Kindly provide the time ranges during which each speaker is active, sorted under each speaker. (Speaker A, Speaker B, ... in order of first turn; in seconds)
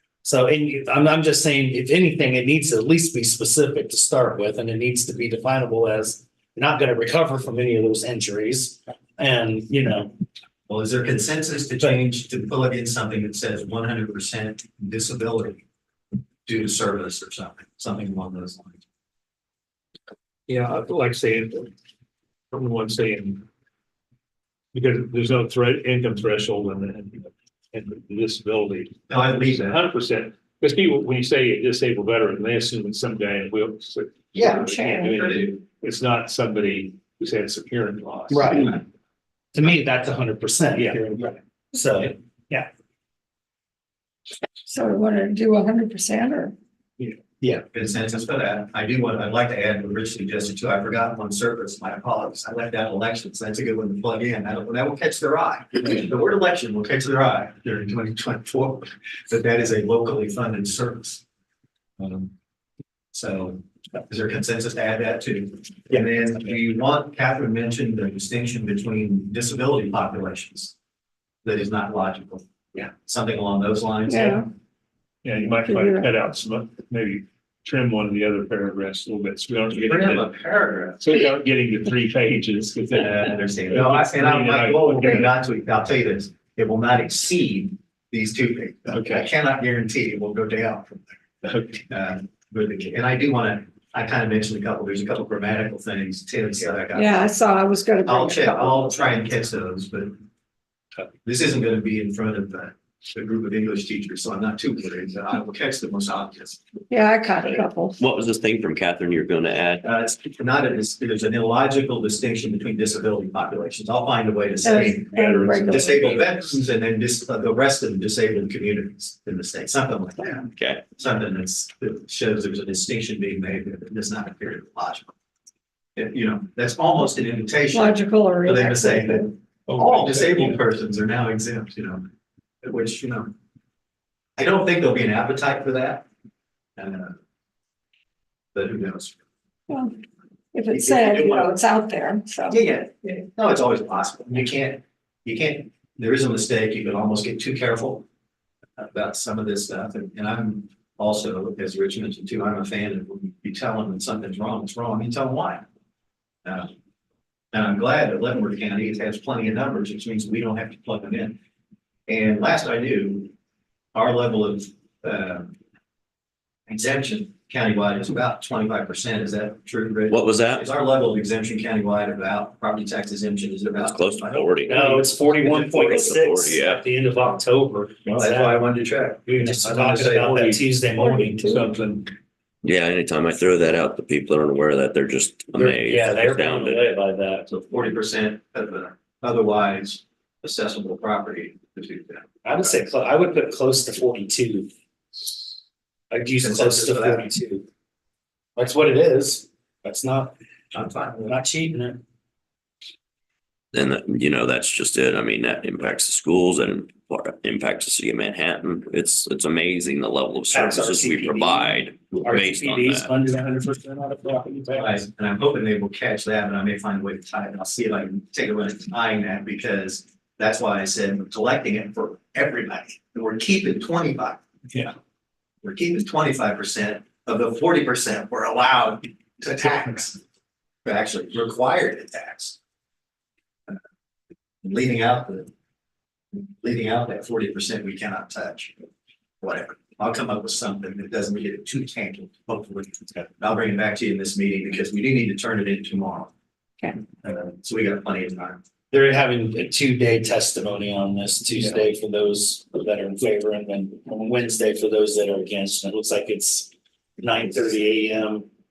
Speaker A: 0.2-10.1, 38.3-38.8, 39.5-42.7, 174.7-178.6, 179.3-181.5, 185.5-187.5, 192.4-194.7, 196.1-197.7, 198.6-200.3, 201.3-202.0, 210.5-215.0, 248.9-258.5
Speaker B: 10.7-15.6, 16.4-18.8, 29.1-29.8, 34.3-35.5, 47.7-61.2, 62.0-62.3, 63.1-70.7, 71.4-74.5, 79.8-81.0, 83.0-91.2, 91.8-97.3, 98.0-100.1, 101.2-106.6, 109.8-125.1, 125.9-132.0, 132.6-133.3, 134.4-136.1, 136.8-137.2, 138.5-139.2, 140.7-141.6, 142.5-148.1, 148.8-155.7, 156.4-156.7, 157.5-161.4, 162.1-163.3, 163.9-165.6, 166.7-174.5, 178.2-180.3, 187.5-192.3, 196.4-197.3, 200.7-201.4, 214.8-224.4, 225.6-230.2, 230.8-232.6, 234.6-235.5, 236.3-238.8, 239.4-246.3, 247.2-248.6
Speaker C: 20.5-21.7, 22.5-23.5, 24.7-38.7, 40.8-41.1, 75.2-80.3, 81.0-85.3, 88.9-89.3, 91.4-91.8, 129.7-130.6, 180.2-180.6, 181.3-182.1
Speaker D: 34.4-35.1, 44.6-46.5, 74.1-74.5, 75.5-76.1, 96.9-99.1, 106.9-108.0, 114.6-116.3, 127.7-129.3, 139.7-139.9, 140.5-142.6, 181.0-181.6
Speaker E: 108.0-109.8, 120.5-120.8, 170.1-170.7, 173.8-176.8, 182.6-186.9, 203.7-213.1